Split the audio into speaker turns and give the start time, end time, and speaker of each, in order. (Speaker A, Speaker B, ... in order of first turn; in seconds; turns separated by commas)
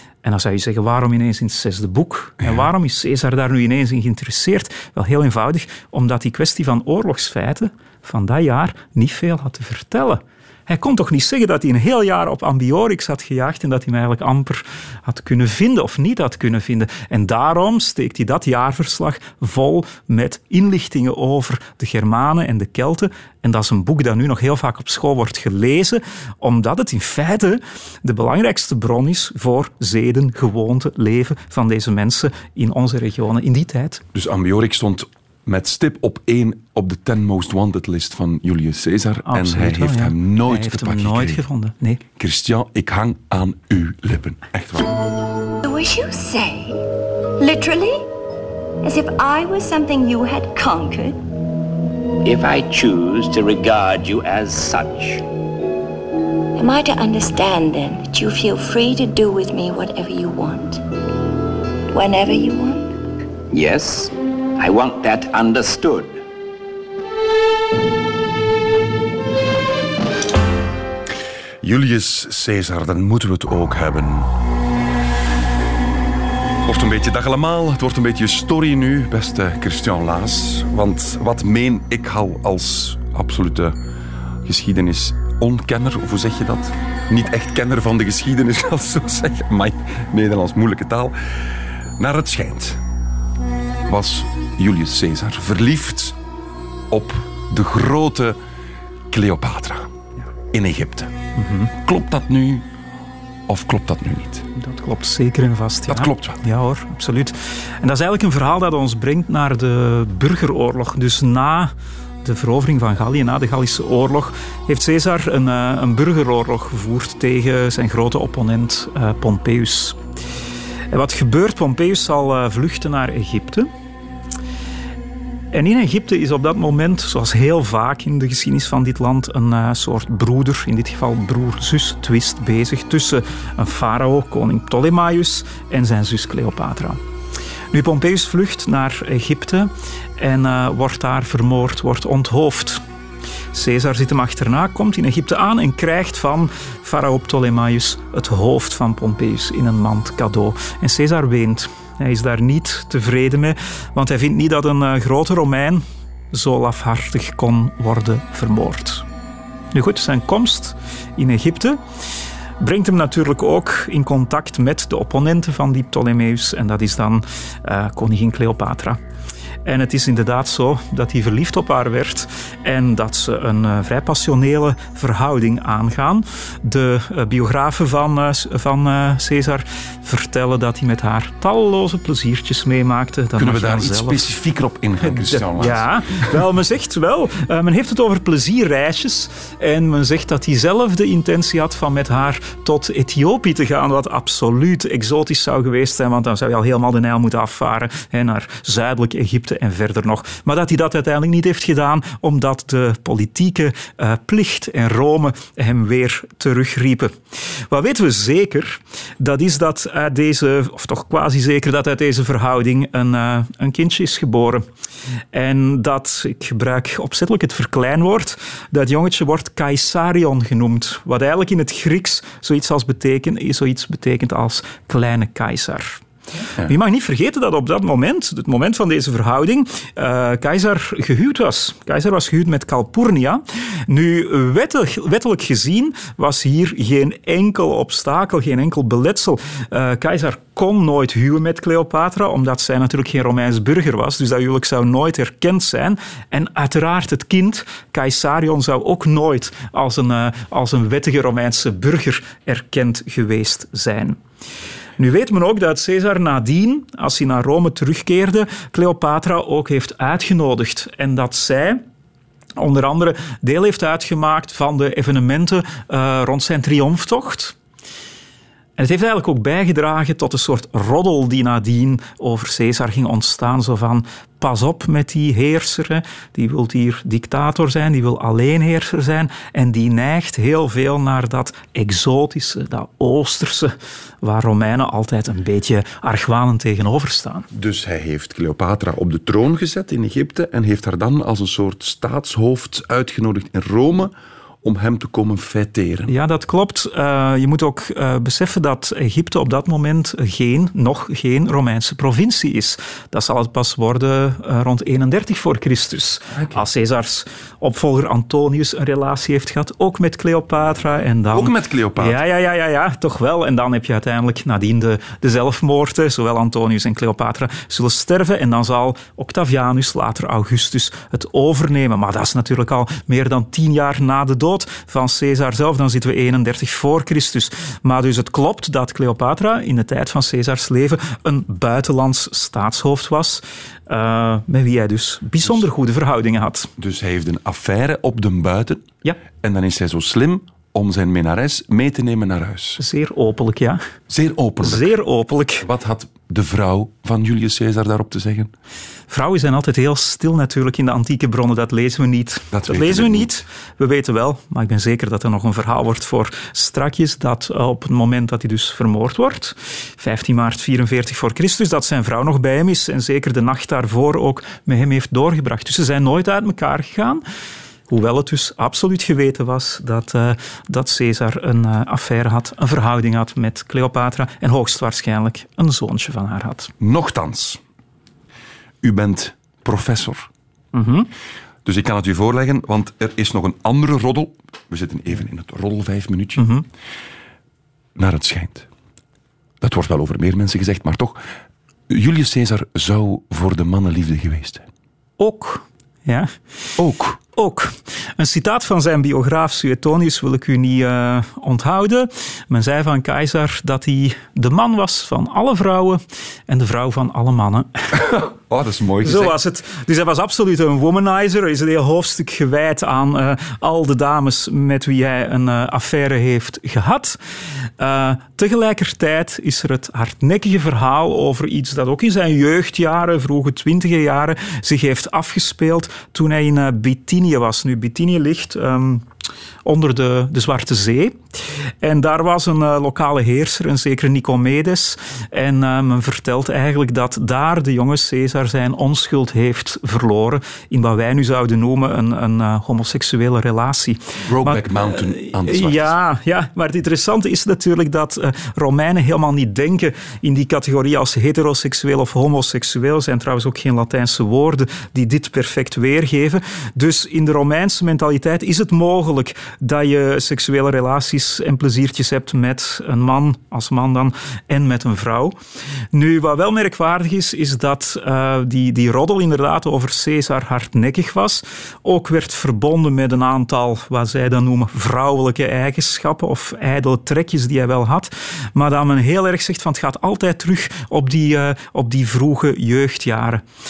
Speaker A: 0.2-34.0, Speaker B: 34.1-41.4, Speaker A: 39.2-42.0, Speaker B: 42.2-45.0, Speaker C: 45.6-48.0, Speaker C: 48.8-51.2, Speaker D: 52.2-55.2, Speaker C: 56.5-60.8, Speaker C: 61.9-63.0, Speaker D: 63.5-66.2, Speaker B: 71.6-74.3, Speaker B: 76.7-83.8, Speaker B: 84.4-92.8, Speaker B: 93.9-96.2, Speaker B: 96.9-98.4, Speaker B: 99.1-99.9, Speaker B: 100.5-101.1, Speaker A: 101.3-101.7, Speaker B: 101.7-102.7, Speaker B: 103.5-104.5, Speaker A: 104.5-111.7, Speaker B: 105.9-106.4, Speaker A: 112.2-120.0, Speaker A: 120.9-123.7, Speaker A: 125.5-137.0, Speaker A: 137.7-142.8, Speaker A: 143.5-159.0, Speaker A: 159.7-161.8, Speaker A: 162.6-169.0, Speaker A: 169.6-184.3, Speaker B: 183.4-186.4, Speaker A: 185.0-214.7, Speaker A: 215.3-226.0, Speaker A: 226.6-254.2, Speaker A: 255.0-261.8, Speaker A: 262.6-267.6, Speaker A: 268.8-287.5, Speaker B: 287.5-296.1, Speaker A: 296.1-336.7, Speaker B: 311.3-312.2, Speaker B: 336.8-342.8, Speaker A: 342.8-343.8, Speaker B: 344.1-344.9, Speaker A: 344.6-345.7, Speaker B: 345.6-348.5, Speaker A: 349.1-367.2, Speaker B: 352.5-353.3, Speaker A: 367.9-376.7, Speaker B: 376.8-377.6, Speaker B: 378.8-380.3, Speaker A: 380.7-381.1, Speaker B: 381.6-386.5, Speaker A: 386.4-386.6, Speaker B: 387.9-388.7, Speaker B: 389.6-391.2, Speaker B: 391.9-394.6, Speaker A: 395.2-396.3, Speaker B: 396.8-397.2, Speaker A: 397.3-407.9, Speaker B: 407.9-409.4, Speaker A: 409.0-417.2, Speaker A: 417.8-429.0, Speaker A: 429.6-465.4, Speaker B: 444.2-445.9, Speaker A: 465.9-483.4